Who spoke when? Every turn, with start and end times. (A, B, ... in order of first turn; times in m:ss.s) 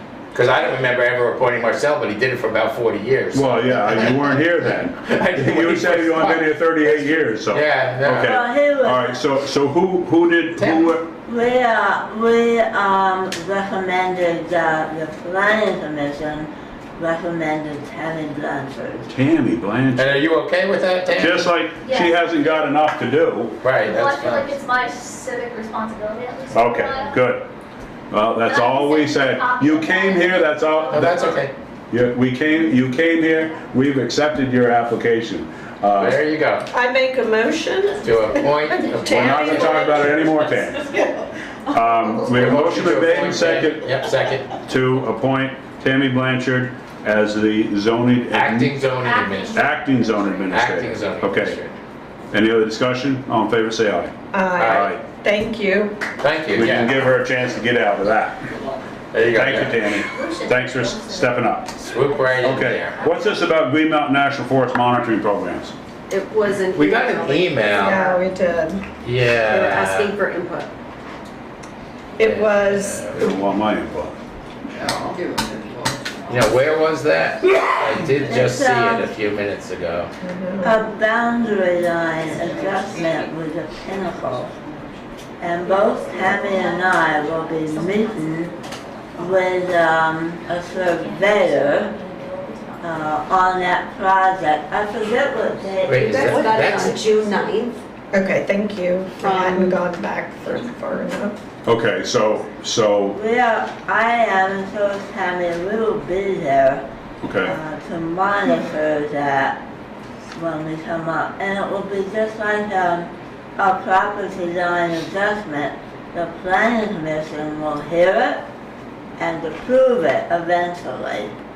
0:00.3-0:08.3 A
0:03.3-0:11.1 B
0:08.2-0:09.1 C
0:10.6-0:10.9 A
0:11.2-0:19.1 C
0:19.1-0:20.2 B
0:20.0-0:21.5 A
0:21.2-0:23.6 B
0:21.8-0:22.2 D
0:23.6-0:24.6 A
0:23.8-0:27.2 D
0:26.5-0:27.5 B
0:28.1-0:36.2 B
0:28.4-0:31.5 D
0:30.9-0:31.5 A
0:36.0-0:36.7 A
0:36.7-0:39.8 E
0:38.0-0:40.2 A
0:38.1-0:40.7 D
0:39.1-0:40.9 B
0:40.9-0:41.1 E
0:41.7-0:44.1 B
0:42.3-0:44.5 A
0:44.6-0:48.7 B
0:48.3-0:49.6 A
0:49.0-0:50.8 D
0:49.5-0:51.6 B
0:50.5-0:51.8 A
0:52.3-0:55.0 B
0:54.3-0:56.0 E
0:54.6-0:55.0 A
0:56.2-0:57.0 A
0:56.6-0:58.4 B
0:59.1-0:59.8 A
0:59.2-1:01.8 B
1:00.1-1:03.5 D
1:01.8-1:03.0 A
1:02.3-1:05.7 B
1:06.1-1:08.2 F
1:06.7-1:08.1 A
1:07.8-1:08.8 E
1:09.0-1:10.2 A
1:09.4-1:10.7 F
1:12.2-1:13.3 E
1:12.2-1:13.3 A
1:13.1-1:14.2 B
1:14.8-1:16.6 F
1:16.3-1:20.1 A
1:18.2-1:19.1 C
1:20.2-1:20.8 E
1:20.6-1:24.5 C
1:22.3-1:23.2 F
1:25.4-1:28.5 C
1:25.8-1:28.6 D
1:29.2-1:31.9 C
1:30.7-1:33.3 D
1:32.8-1:37.0 C
1:35.8-1:37.0 A
1:36.1-1:37.8 F
1:38.1-1:41.4 E
1:39.2-1:39.8 F
1:41.6-1:43.2 B
1:43.1-1:46.8 C
1:47.2-1:47.6 B
1:47.4-1:49.6 C
1:50.4-1:58.4 C
1:59.2-2:01.3 C